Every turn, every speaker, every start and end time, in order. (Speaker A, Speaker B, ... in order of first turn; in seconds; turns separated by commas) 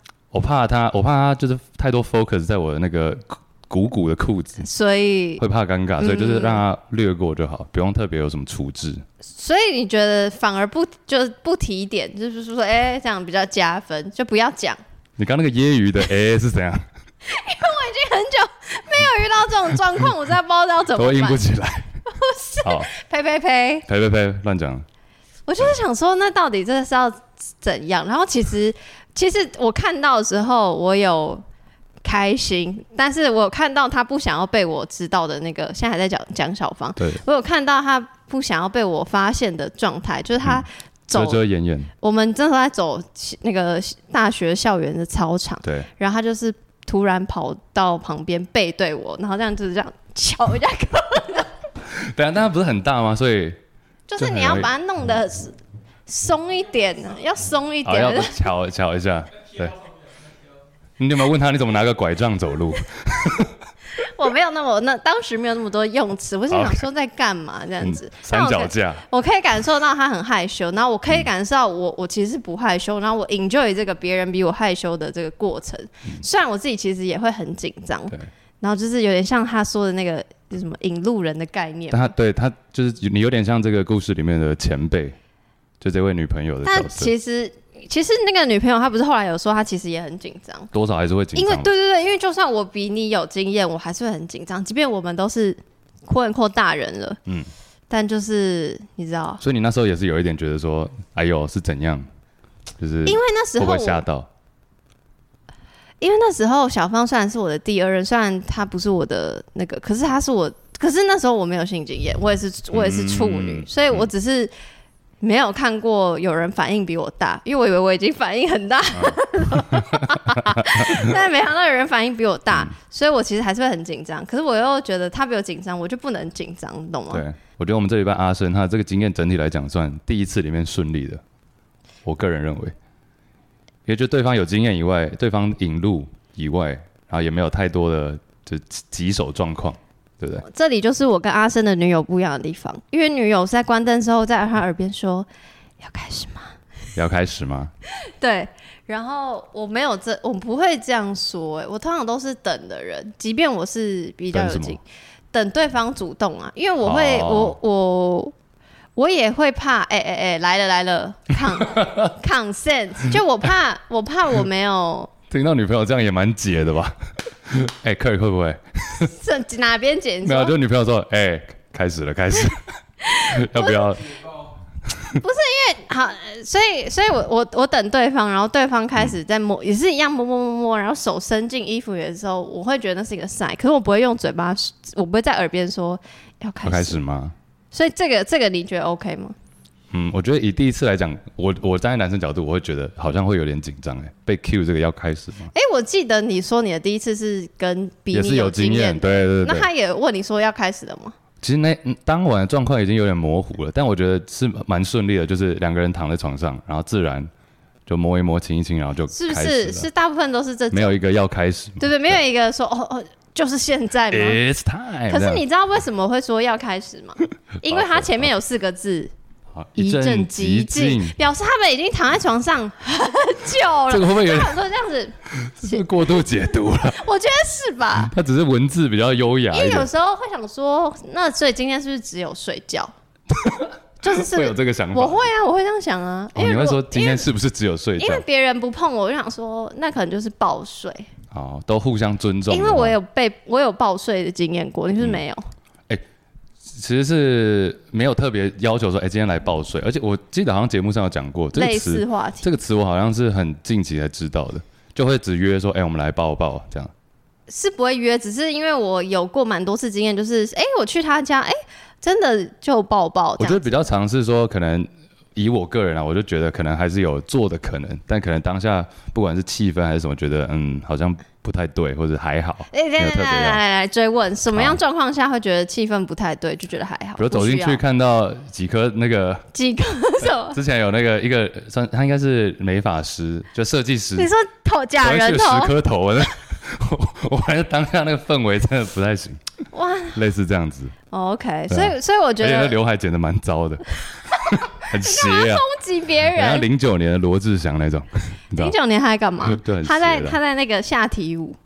Speaker A: 0.3-4.7, Speaker B: 4.6-5.4, Speaker A: 5.4-9.0, Speaker B: 6.0-6.6, Speaker B: 9.2-14.8, Speaker A: 15.2-16.8, Speaker B: 17.2-21.4, Speaker A: 20.9-21.9, Speaker B: 22.1-23.9, Speaker A: 22.6-22.9, Speaker A: 23.9-24.8, Speaker B: 25.5-31.4, Speaker B: 32.0-41.4, Speaker A: 37.0-37.2, Speaker A: 40.4-41.9, Speaker B: 42.0-51.5, Speaker A: 45.6-45.9, Speaker A: 51.9-53.6, Speaker B: 54.1-55.5, Speaker A: 54.2-54.7, Speaker B: 56.1-58.4, Speaker A: 57.8-59.8, Speaker A: 61.0-63.5, Speaker B: 64.0-82.1, Speaker A: 66.5-66.8, Speaker A: 67.8-69.0, Speaker A: 81.9-85.2, Speaker A: 85.8-87.1, Speaker B: 86.6-90.7, Speaker A: 90.7-91.7, Speaker B: 91.3-97.2, Speaker B: 97.9-99.4, Speaker A: 99.4-102.0, Speaker A: 102.8-104.3, Speaker B: 103.0-104.0, Speaker B: 106.0-114.5, Speaker A: 112.7-114.1, Speaker B: 115.2-127.2, Speaker A: 118.9-121.2, Speaker A: 127.1-131.2, Speaker A: 132.0-132.7, Speaker A: 133.8-140.4, Speaker B: 140.4-145.3, Speaker B: 145.8-146.5, Speaker A: 146.9-147.7, Speaker B: 148.1-154.8, Speaker A: 154.3-154.8, Speaker B: 155.3-158.3, Speaker A: 156.8-157.6, Speaker B: 158.9-165.1, Speaker A: 165.3-169.1, Speaker B: 169.1-170.5, Speaker A: 170.2-172.6, Speaker B: 173.0-173.9, Speaker A: 173.3-174.2, Speaker A: 174.9-175.2, Speaker B: 175.2-187.0, Speaker A: 186.6-187.3, Speaker B: 187.7-189.3, Speaker A: 189.9-195.5, Speaker B: 195.5-201.1, Speaker A: 198.1-199.7, Speaker A: 201.4-207.3, Speaker A: 207.9-209.9, Speaker B: 209.1-211.0, Speaker A: 210.7-212.2, Speaker B: 211.8-214.4, Speaker A: 214.1-215.4, Speaker B: 215.1-219.1, Speaker A: 217.7-218.3, Speaker A: 219.5-221.2, Speaker B: 219.8-225.8, Speaker A: 223.9-224.6, Speaker A: 225.3-227.0, Speaker B: 226.8-228.1, Speaker A: 227.9-229.9, Speaker B: 229.5-232.9, Speaker A: 233.3-235.3, Speaker B: 234.0-237.3, Speaker A: 236.3-238.2, Speaker B: 238.0-241.1, Speaker A: 241.3-242.9, Speaker B: 242.5-245.4, Speaker A: 246.6-256.9, Speaker B: 251.5-252.4, Speaker B: 257.5-263.8, Speaker A: 263.4-273.6, Speaker B: 272.7-277.8, Speaker A: 274.5-274.8, Speaker A: 277.2-279.4, Speaker B: 279.5-280.6, Speaker A: 280.2-284.3, Speaker B: 284.2-285.8, Speaker A: 285.0-289.4, Speaker B: 289.7-290.2, Speaker A: 290.1-290.9, Speaker B: 291.1-292.8, Speaker A: 291.7-295.7, Speaker B: 294.9-296.7, Speaker A: 296.3-298.7, Speaker B: 298.6-301.6, Speaker A: 299.4-300.4